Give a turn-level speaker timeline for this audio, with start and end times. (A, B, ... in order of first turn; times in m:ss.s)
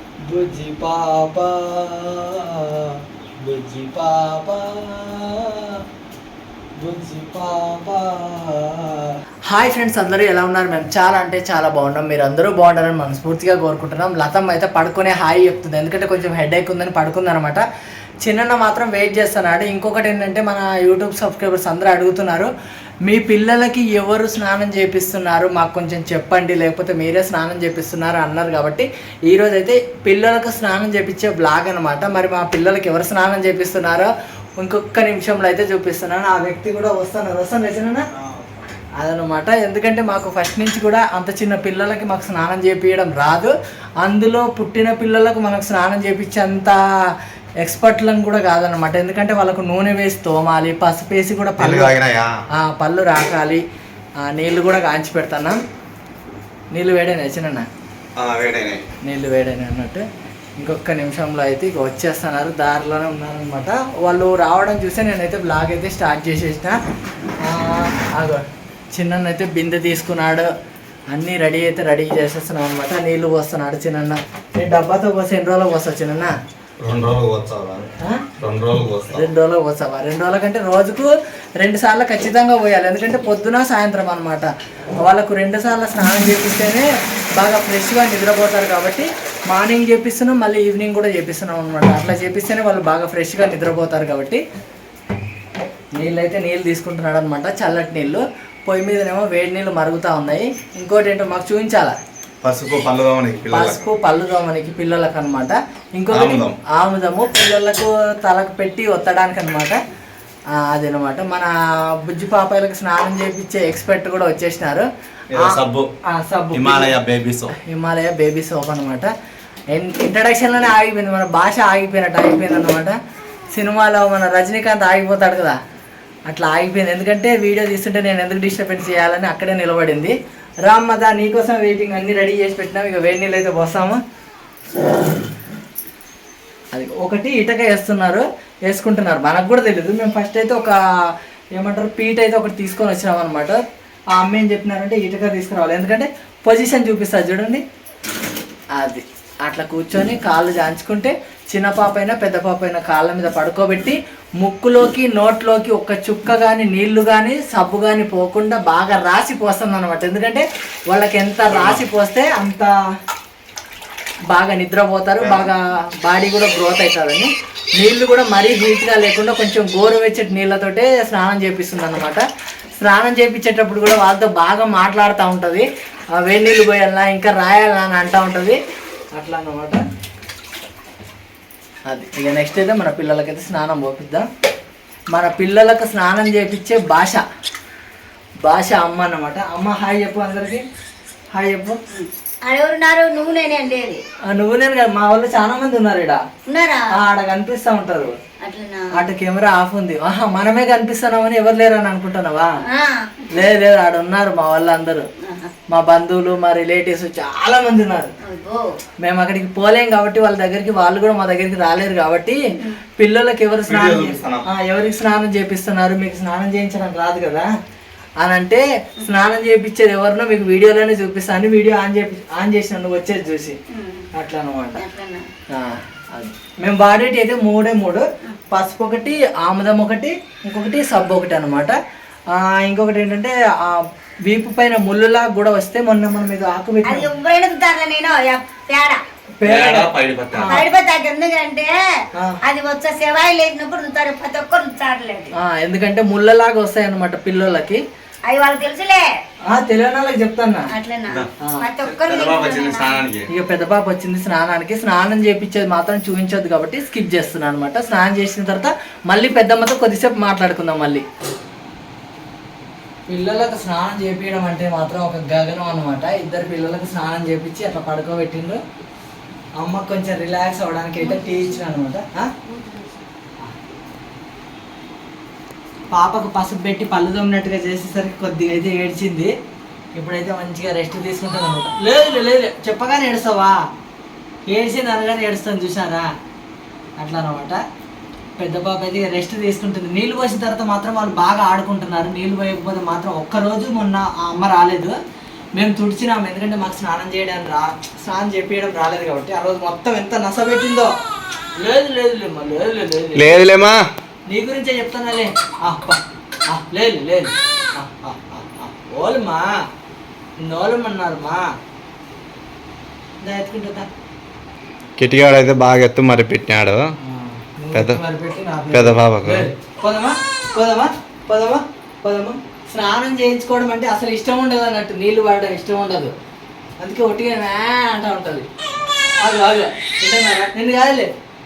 0:00.3-0:05.8 A
0:06.8-0:17.6 A
0:18.2-0:22.5 A
0:23.0-0:38.0 A
0:38.2-0:38.6 B
0:39.0-0:46.8 A
0:47.6-0:52.0 A
0:51.6-0:52.4 B
0:52.5-0:53.6 A
0:54.2-0:55.6 A
0:56.7-0:57.7 A
0:58.2-0:58.8 B
0:59.0-1:00.0 A
1:00.6-1:06.8 A
1:07.4-1:10.5 A
1:11.1-1:16.3 A
1:16.8-1:17.9 B
1:18.4-1:19.2 B
1:19.1-1:24.5 A
1:25.0-1:26.9 A
1:27.4-1:34.4 A
1:35.9-1:42.0 A
1:42.4-1:43.8 B
1:43.5-1:49.8 A
1:46.1-1:46.6 B
1:50.5-1:51.5 A
1:52.0-1:54.8 A
1:55.3-1:55.9 B
1:55.4-1:56.9 A
1:56.5-1:57.5 B
1:57.6-1:59.1 A
1:59.7-2:02.9 A
2:03.5-2:05.6 A
2:06.3-2:10.1 A
2:10.6-2:14.0 A
2:16.7-2:20.8 A
2:21.6-2:23.6 A
2:24.1-2:27.6 A
2:28.8-2:42.7 A
2:41.5-2:41.8 B
2:44.3-2:52.2 A
2:45.2-2:45.5 B
2:52.8-2:58.6 A
2:59.1-2:59.8 A
3:01.9-3:04.3 A
3:05.1-3:07.2 A
3:08.4-3:10.6 A
3:11.3-3:11.8 A
3:11.9-3:14.0 C
3:14.3-3:16.2 A
3:16.5-3:16.9 C
3:16.9-3:18.1 A
3:18.4-3:19.0 C
3:18.9-3:22.5 A
3:22.7-3:23.1 C
3:23.3-3:25.1 A
3:25.2-3:25.5 C
3:25.7-3:28.1 A
3:28.2-3:28.7 C
3:29.0-3:32.4 A
3:33.0-3:37.5 A
3:33.7-3:34.4 B
3:38.2-3:43.6 A
3:43.7-3:44.1 C
3:44.1-3:44.8 A
3:44.7-3:45.3 C
3:45.5-3:51.8 A
3:52.3-3:57.1 A
3:56.8-3:59.0 C
3:59.4-4:00.7 A
3:59.4-4:00.5 B
4:00.5-4:01.7 C
4:02.4-4:05.3 C
4:05.4-4:07.8 A
4:08.3-4:09.1 C
4:09.5-4:10.7 A
4:10.7-4:13.0 C
4:11.8-4:13.3 B
4:13.3-4:21.0 A
4:23.1-4:28.6 A
4:29.6-4:32.3 A
4:31.0-4:31.7 C
4:32.5-4:33.0 C
4:35.9-4:39.3 A
4:39.9-4:43.6 A
4:44.5-4:46.0 A
4:47.0-4:47.6 A
4:48.4-4:54.9 A
4:55.5-5:00.9 A
5:01.6-5:03.4 A
5:03.1-5:03.8 B
5:04.3-5:09.5 A
5:10.4-5:11.5 A
5:13.2-5:13.9 A
5:15.0-5:16.8 B
5:17.0-5:26.1 A
5:18.7-5:19.4 B
5:26.8-5:28.5 A
5:29.2-5:31.1 A